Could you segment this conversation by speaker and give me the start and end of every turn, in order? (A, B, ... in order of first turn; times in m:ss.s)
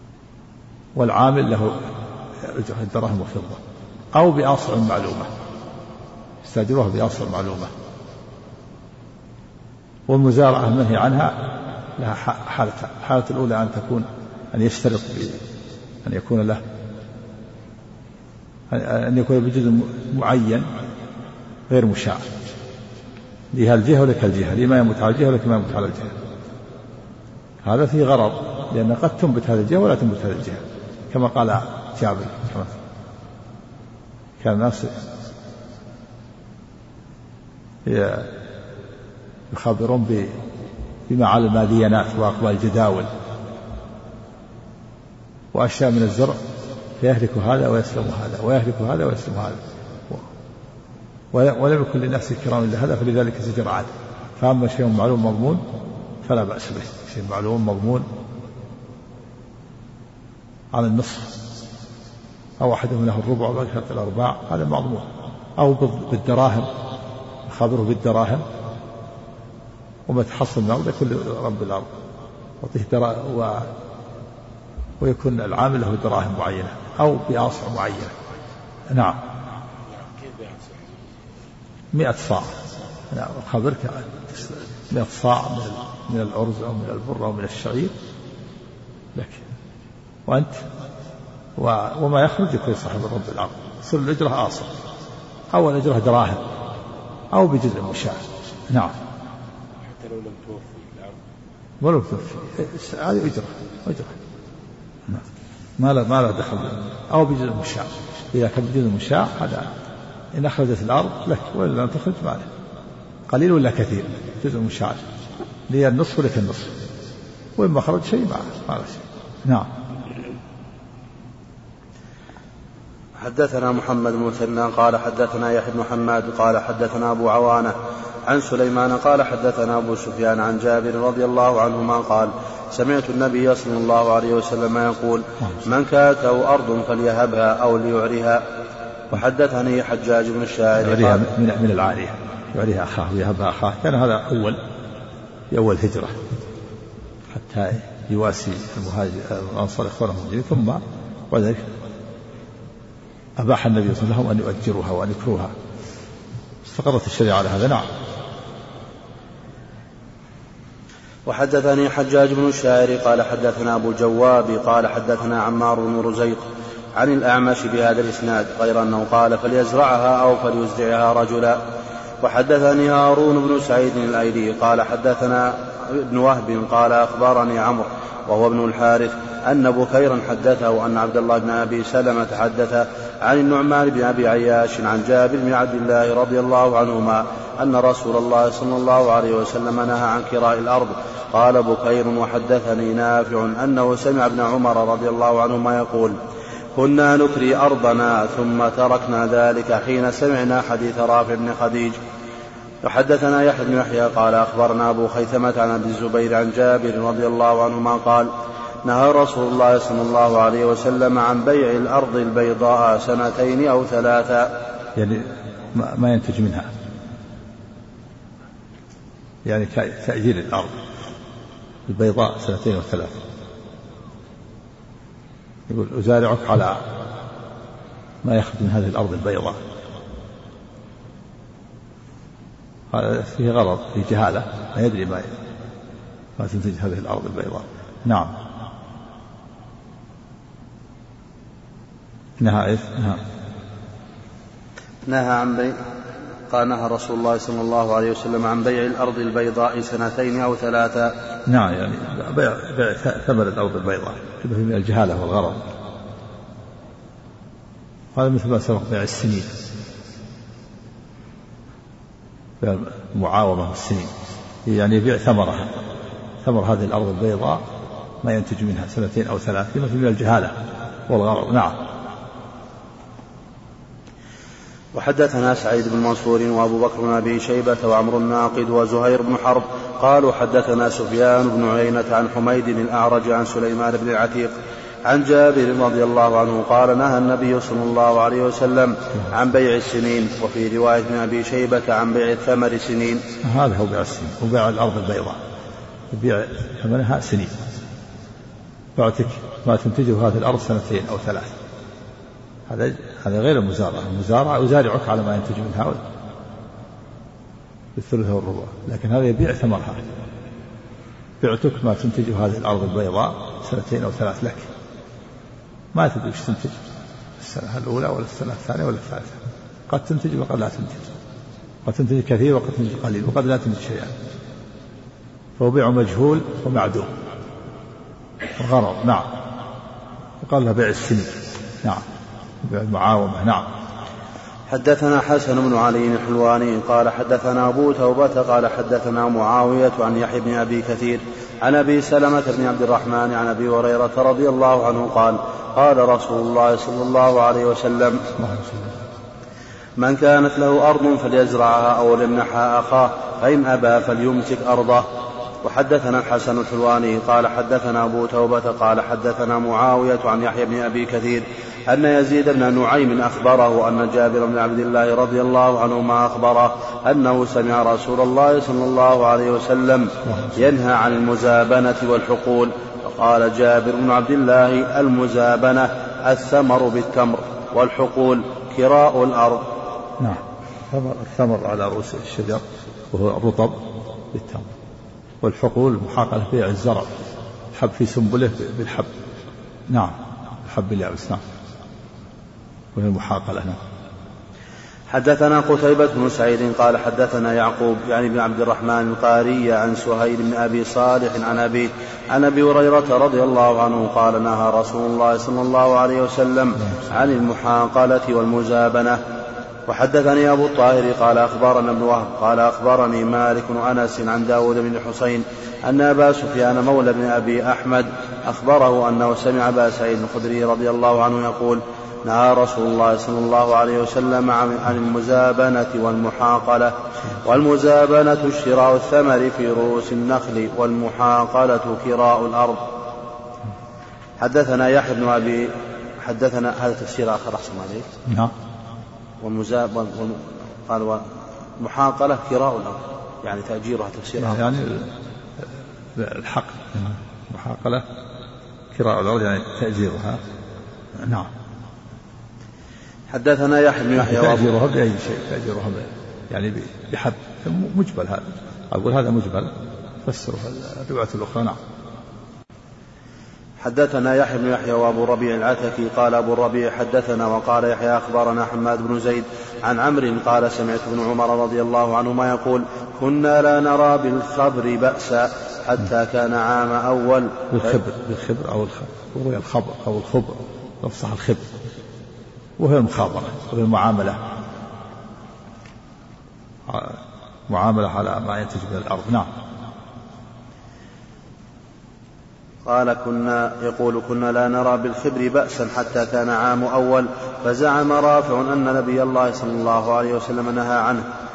0:00.9-0:01.8 A
0:02.4-0:03.6 A
0:04.1-0:05.3 A
0:06.4-0:07.7 A
0:10.1-0:15.4 A
0:16.0-0:16.6 A
0:18.7-0:20.7 A
0:21.7-0:22.2 A
0:23.5-0:26.1 A
0:27.6-0:32.7 A
0:34.4-0:34.9 A
0:37.8-0:38.3 A
0:39.5-0:40.4 A
0:41.1-0:43.1 A
0:45.5-0:46.4 A
0:47.0-0:49.6 A
0:51.3-0:55.6 A
0:56.2-0:58.1 A
1:00.7-1:01.4 A
1:02.6-1:05.1 A
1:05.6-1:06.7 A
1:07.5-1:08.4 A
1:10.1-1:11.9 A
1:12.6-1:13.7 A
1:15.0-1:18.1 A
1:18.9-1:19.2 A
1:19.9-1:21.1 B
1:21.9-1:22.5 A
1:23.1-1:27.9 A
1:29.1-1:29.4 A
1:30.3-1:30.6 A
1:31.6-1:34.7 A
1:35.5-1:36.4 A
1:37.3-1:38.2 A
1:39.8-1:41.2 B
1:41.8-1:44.1 A
1:45.8-1:49.7 A
1:50.3-1:52.5 A
1:53.3-1:55.0 A
1:55.7-1:56.8 A
1:57.6-1:59.7 A
2:03.2-2:07.7 C
2:08.2-2:18.4 C
2:19.1-2:21.2 C
2:20.8-2:24.6 A
2:25.5-2:26.2 A
2:27.3-2:31.6 A
2:33.4-2:35.5 A
2:36.6-2:37.8 A
2:41.3-2:46.4 C
2:47.0-2:51.6 C
2:52.2-3:16.2 C
3:16.8-3:22.0 C
3:22.8-3:28.3 C
3:28.8-3:34.5 C
3:35.0-3:36.7 A
3:39.4-3:40.7 A
3:41.9-3:43.2 A
3:45.7-3:46.8 A
3:48.2-3:49.6 A
3:52.9-3:55.3 A
3:56.4-3:58.3 A
4:02.4-4:03.2 A
4:05.1-4:05.7 C
4:06.5-4:11.1 C
4:11.5-4:15.6 A
4:18.1-4:19.5 A
4:22.6-4:24.1 A
4:24.6-4:25.7 A
4:26.4-4:27.6 A
4:28.2-4:30.5 A
4:31.1-4:31.8 A
4:34.9-4:44.5 C
4:45.0-4:53.2 C
4:53.4-4:55.4 A
4:56.1-4:57.6 A
4:59.0-5:01.5 A
5:02.7-5:06.0 A
5:07.9-5:10.0 A
5:11.4-5:14.7 A
5:15.9-5:16.8 A
5:17.4-5:21.1 A
5:21.8-5:24.1 A
5:25.6-5:27.1 A
5:28.6-5:29.3 A
5:30.4-5:32.0 A
5:32.6-5:33.6 A
5:34.7-5:48.2 C
5:48.4-5:48.9 A
5:50.0-5:55.1 C
5:55.6-6:19.6 C
6:10.3-6:10.5 A
6:20.2-6:24.7 A
6:25.4-6:27.1 A
6:27.7-6:29.1 A
6:29.9-6:31.4 A
6:32.9-6:33.8 A
6:35.1-6:49.2 C
6:49.9-7:12.8 C
7:14.4-7:15.7 C
7:16.2-7:18.1 C
7:18.3-7:18.5 A
7:19.4-7:21.2 C
7:21.8-7:24.6 C
7:24.4-7:25.1 A
7:26.2-7:28.0 A
7:28.9-7:30.4 A
7:31.2-7:31.5 A
7:33.3-7:34.7 C
7:34.2-7:39.7 A
7:40.2-7:41.8 A
7:43.8-7:58.0 C
7:57.7-8:01.6 A
8:02.8-8:04.4 A
8:06.9-8:09.5 A
8:12.8-8:21.2 C